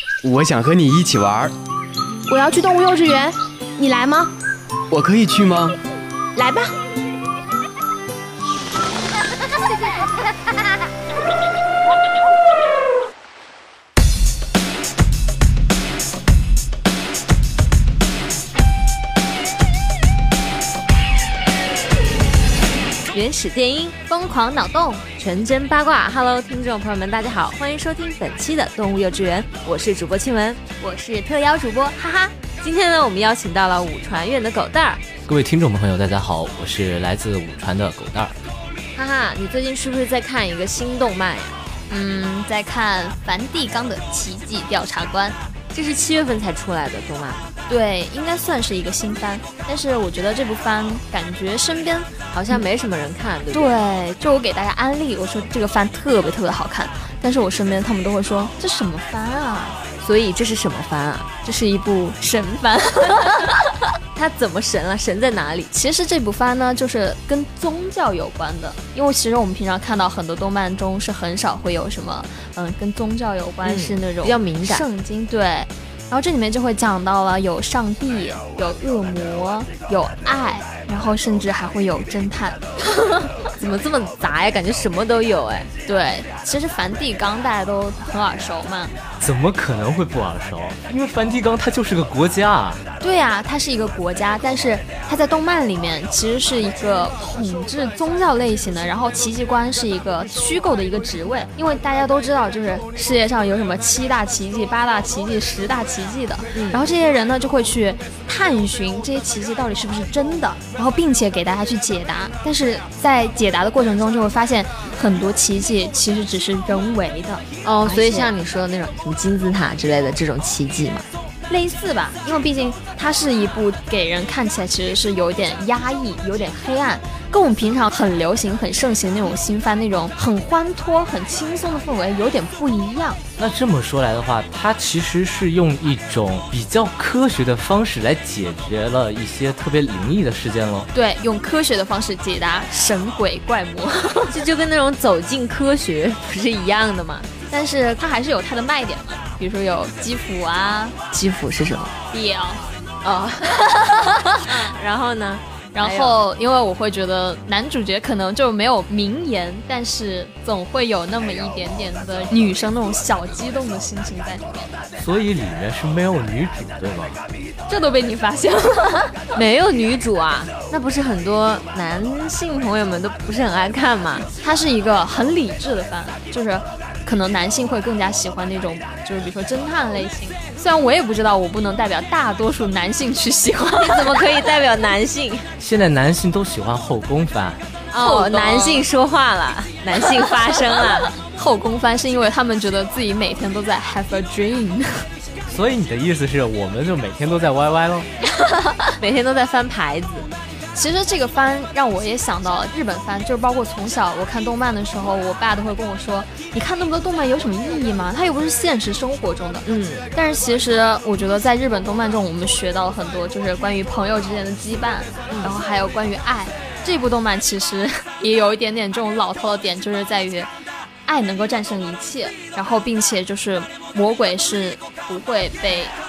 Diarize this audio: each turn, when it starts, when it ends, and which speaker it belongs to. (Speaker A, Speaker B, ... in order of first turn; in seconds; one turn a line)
Speaker A: 0.2-1.5
Speaker B: 2.3-4.3
Speaker A: 4.9-5.7
Speaker B: 6.3-6.7
Speaker C: 23.1-23.9
Speaker D: 24.1-25.0
Speaker C: 25.2-30.6
Speaker D: 30.8-32.3
Speaker C: 32.6-35.0
Speaker E: 35.2-38.3
Speaker C: 38.9-41.6
Speaker D: 41.9-45.4
Speaker C: 45.7-47.5
Speaker D: 47.7-52.6
Speaker C: 52.3-53.7
Speaker D: 53.5-59.8
Speaker C: 60.0-61.3
Speaker D: 61.4-63.6
Speaker C: 64.1-65.7
Speaker D: 65.7-82.6
Speaker C: 73.6-74.8
Speaker C: 83.6-85.7
Speaker D: 85.8-88.9
Speaker E: 89.2-92.8
Speaker D: 93.0-118.3
Speaker C: 106.5-106.9
Speaker C: 117.6-121.1
Speaker D: 121.5-133.2
Speaker E: 133.4-140.9
Speaker D: 140.9-144.3
Speaker C: 144.3-147.3
Speaker D: 147.5-150.9
Speaker C: 151.1-151.9
Speaker D: 152.1-152.8
Speaker C: 153.0-156.2
Speaker D: 155.7-164.7
Speaker E: 164.9-167.2
Speaker D: 167.7-169.3
Speaker C: 169.3-174.3
Speaker D: 174.4-184.2
Speaker C: 183.8-185.5
Speaker E: 185.6-187.6
Speaker C: 187.9-191.1
Speaker D: 188.0-188.8
Speaker D: 191.2-195.1
Speaker E: 195.5-198.1
Speaker C: 198.9-200.3
Speaker D: 200.7-220.5
Speaker C: 209.6-210.1
Speaker C: 215.3-215.6
Speaker D: 221.1-225.9